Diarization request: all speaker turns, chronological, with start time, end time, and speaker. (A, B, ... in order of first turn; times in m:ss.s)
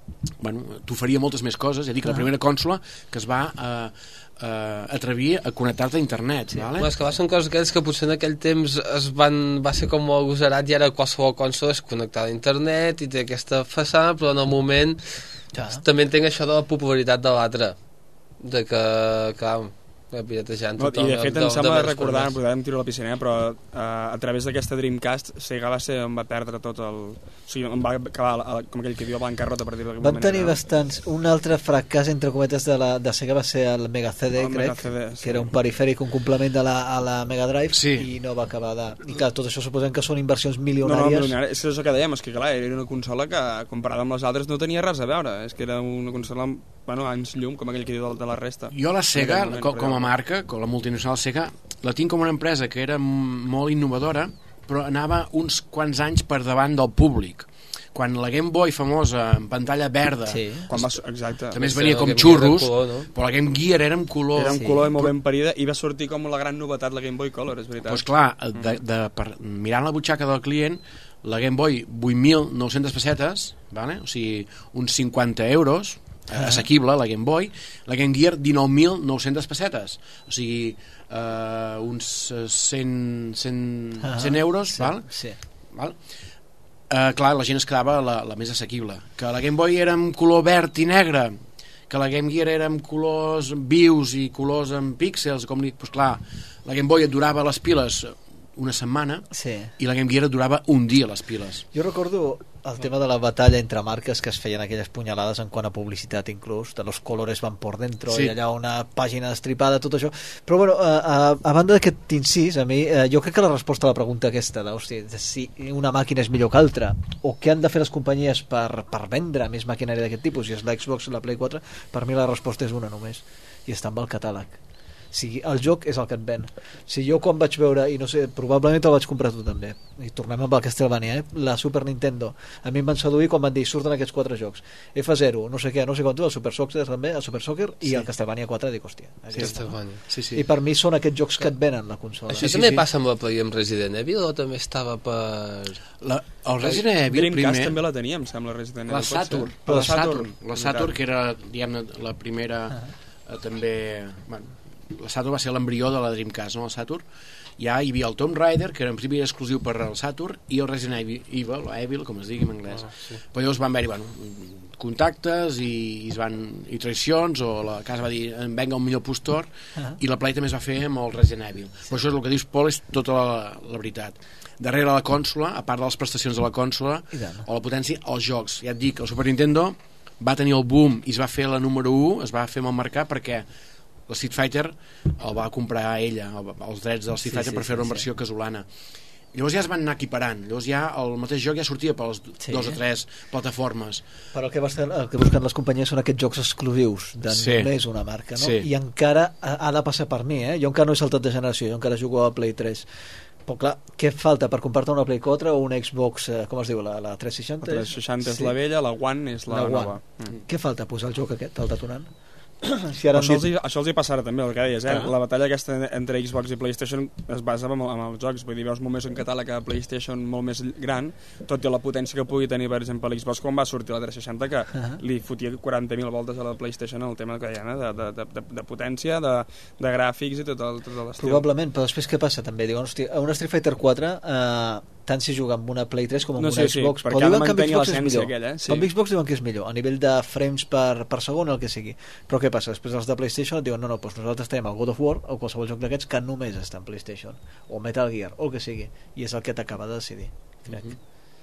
0:00.4-0:06.9 A
0:06.8-0:17.8 B
0:15.5-0:15.8 C
0:18.4-0:22.3 B
0:20.8-0:30.6 D
0:30.0-0:41.3 C
0:34.4-0:35.5 D
0:37.7-0:38.1 A
0:40.8-0:50.1 D
0:48.7-1:00.9 A
1:00.3-1:00.7 C
1:00.7-1:01.6 D
1:01.5-1:05.1 A
1:01.6-1:03.1 B
1:04.4-1:08.0 D
1:04.5-1:04.9 C
1:07.8-1:26.0 A
1:16.3-1:16.6 C
1:24.0-1:25.4 C
1:26.9-1:31.4 A
1:31.9-1:41.6 A
1:39.3-1:39.7 C
1:41.7-2:04.6 C
1:48.1-1:48.3 A
2:05.1-2:19.8 C
2:19.3-2:20.4 A
2:19.4-2:20.0 B
2:20.3-2:22.5 C
2:22.3-2:25.8 B
2:22.4-2:22.8 A
2:26.0-2:27.8 A
2:27.0-2:30.9 D
2:28.9-2:37.0 A
2:37.6-3:03.4 A
2:57.1-2:57.4 C
3:04.1-3:08.6 A
3:07.2-3:08.0 C
3:09.3-3:14.0 A
3:12.4-3:12.8 C
3:14.3-3:22.9 C
3:17.3-3:17.7 A
3:18.4-3:18.6 A
3:23.4-3:28.6 C
3:27.6-3:30.4 D
3:29.5-3:32.1 C
3:32.6-3:33.5 C
3:33.1-3:51.4 D
3:34.8-3:35.1 C
3:44.7-3:45.0 C
3:51.2-4:10.9 C
3:56.4-3:58.9 D
4:10.7-4:10.9 A